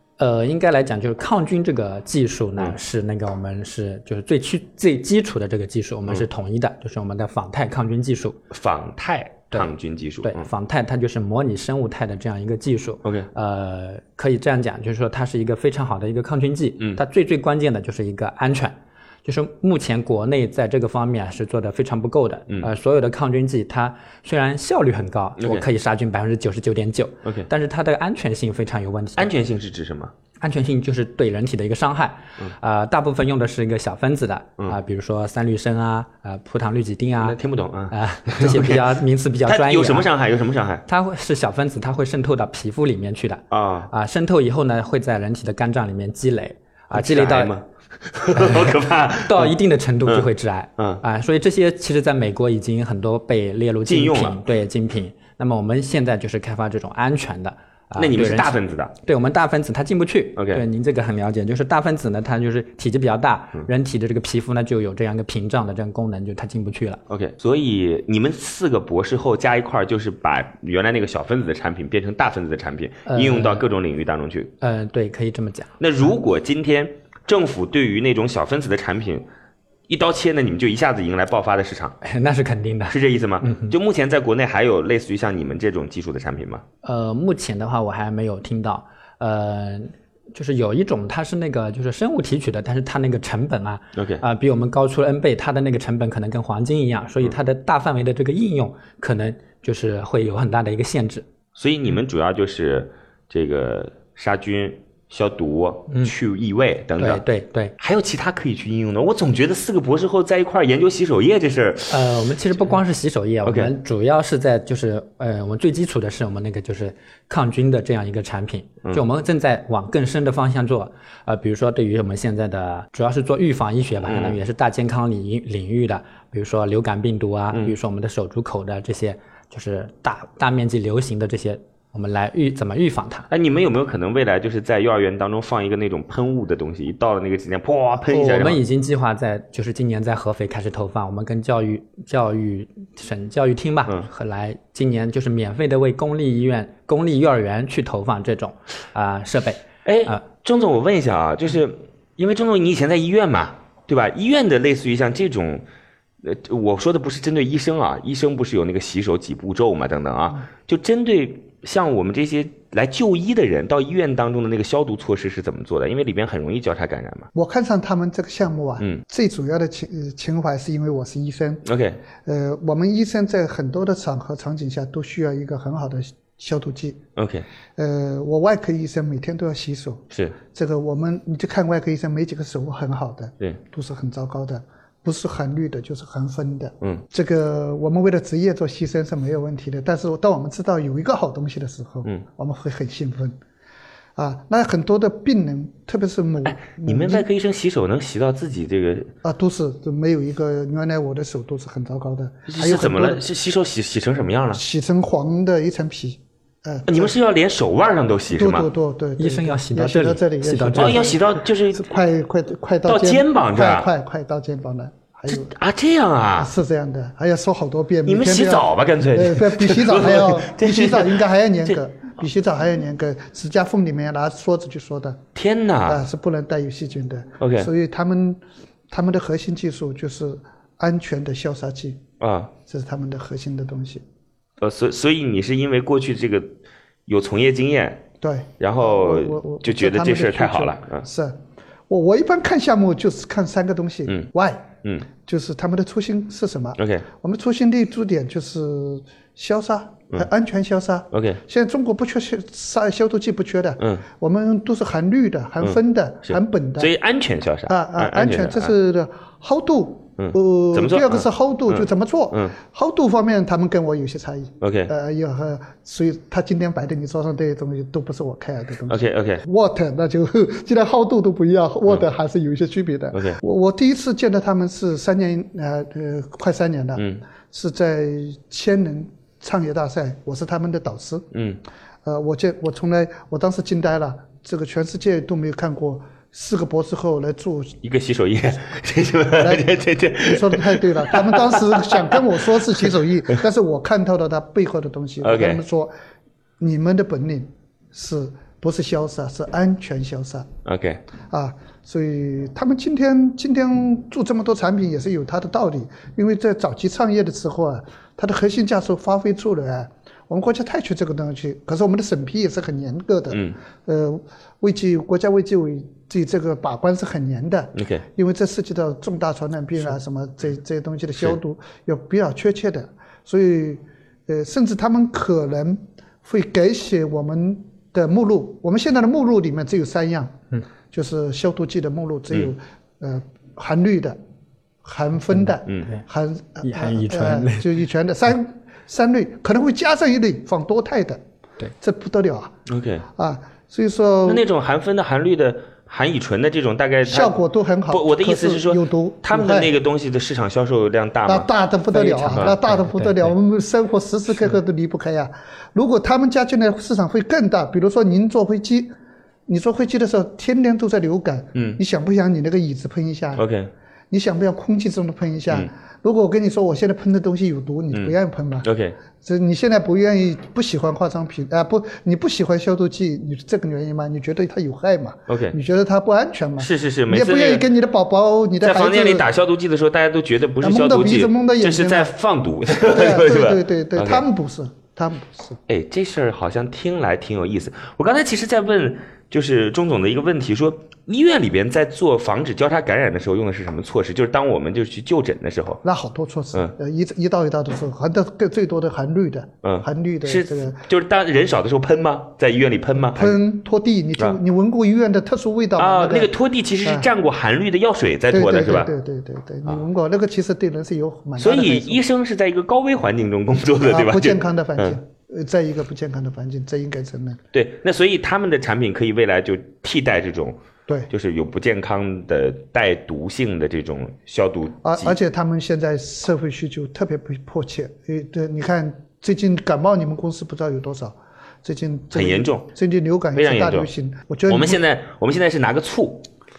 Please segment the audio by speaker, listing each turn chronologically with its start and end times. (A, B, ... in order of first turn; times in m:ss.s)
0:00.2-0:08.4 A
0:08.5-0:10.5 B
0:10.2-0:29.3 A
0:25.4-0:25.6 B
0:29.2-0:30.1 B
0:30.4-0:37.4 A
0:37.2-0:38.9 B
0:37.9-0:40.1 A
0:39.4-0:40.8 B
0:40.9-0:47.5 A
0:43.5-0:43.9 B
0:46.9-0:49.5 B
0:48.3-1:07.0 A
0:50.0-0:51.0 B
0:53.8-0:54.4 B
0:58.0-0:58.9 B
1:00.4-1:00.6 B
1:07.1-1:14.5 B
1:13.1-1:13.6 A
1:14.6-1:15.8 A
1:15.8-1:19.2 B
1:19.9-1:22.0 B
1:22.0-1:23.7 A
1:22.9-1:26.6 B
1:26.8-1:41.3 A
1:34.0-1:34.2 B
1:41.5-1:47.2 B
1:47.0-1:47.7 A
1:47.8-1:52.7 B
1:51.9-2:13.3 A
1:53.4-1:53.7 B
2:04.0-2:04.4 B
2:13.3-2:18.6 B
2:18.1-2:30.2 A
2:29.8-2:35.6 B
2:36.2-2:47.3 B
2:47.3-2:51.6 C
2:51.6-2:52.0 B
2:52.2-2:57.0 C
2:57.2-2:57.4 B
2:57.8-3:13.4 C
3:00.1-3:00.4 B
3:14.2-3:17.2 C
3:16.4-3:19.1 B
3:19.2-3:23.2 C
3:22.5-3:24.6 B
3:24.5-3:27.1 C
3:26.9-3:28.7 B
3:28.3-3:35.5 C
3:29.2-3:31.1 A
3:30.7-3:31.9 B
3:32.8-3:33.9 B
3:35.3-3:36.5 B
3:36.4-3:45.2 C
3:38.0-3:41.8 B
3:45.3-3:46.0 B
3:45.8-3:52.0 C
3:47.4-3:47.7 B
3:52.2-3:52.5 B
3:52.6-3:54.0 C
3:54.6-3:56.6 B
3:57.1-3:58.1 B
3:58.2-4:16.9 C
3:58.6-4:01.0 B
4:06.8-4:07.0 B
4:11.1-4:11.4 B
4:15.6-4:18.7 B
4:17.7-4:41.3 C
4:20.2-4:22.6 B
4:24.6-4:24.9 B
4:28.9-4:29.4 B
4:33.1-4:33.4 B
4:37.0-4:37.2 B
4:41.3-4:41.6 B
4:42.0-4:47.8 C
4:47.8-4:52.2 B
4:49.4-4:55.9 C
4:55.2-4:55.6 B
4:56.6-5:00.5 C
5:00.6-5:01.0 B
5:01.3-5:30.4 C
5:13.3-5:13.6 B
5:17.7-5:18.0 B
5:30.9-5:34.2 C
5:34.8-5:41.2 C
5:36.6-5:37.7 A
5:41.8-5:42.5 C
5:42.7-5:43.0 B
5:43.2-5:44.4 C
5:44.3-5:51.5 B
5:47.0-5:49.7 C
5:51.3-5:58.9 C
5:51.9-5:53.3 A
5:59.5-6:03.4 C
6:01.5-6:01.8 B
6:03.4-6:03.7 B
6:04.1-6:08.7 C
6:07.9-6:09.0 B
6:09.2-6:19.3 C
6:15.3-6:15.6 B
6:16.6-6:17.7 B
6:18.6-6:24.2 B
6:20.6-6:22.1 C
6:22.7-6:25.6 C
6:25.7-6:35.8 B
6:35.8-6:40.8 C
6:39.6-6:43.4 B
6:43.1-6:46.3 C
6:45.8-6:48.9 B
6:48.3-6:52.0 C
6:51.4-6:55.0 B
6:53.8-6:57.4 C
6:57.5-7:00.6 B
7:01.1-7:05.2 B
7:04.8-7:14.8 C
7:12.1-7:12.7 B
7:13.3-7:13.9 B
7:14.5-7:16.3 B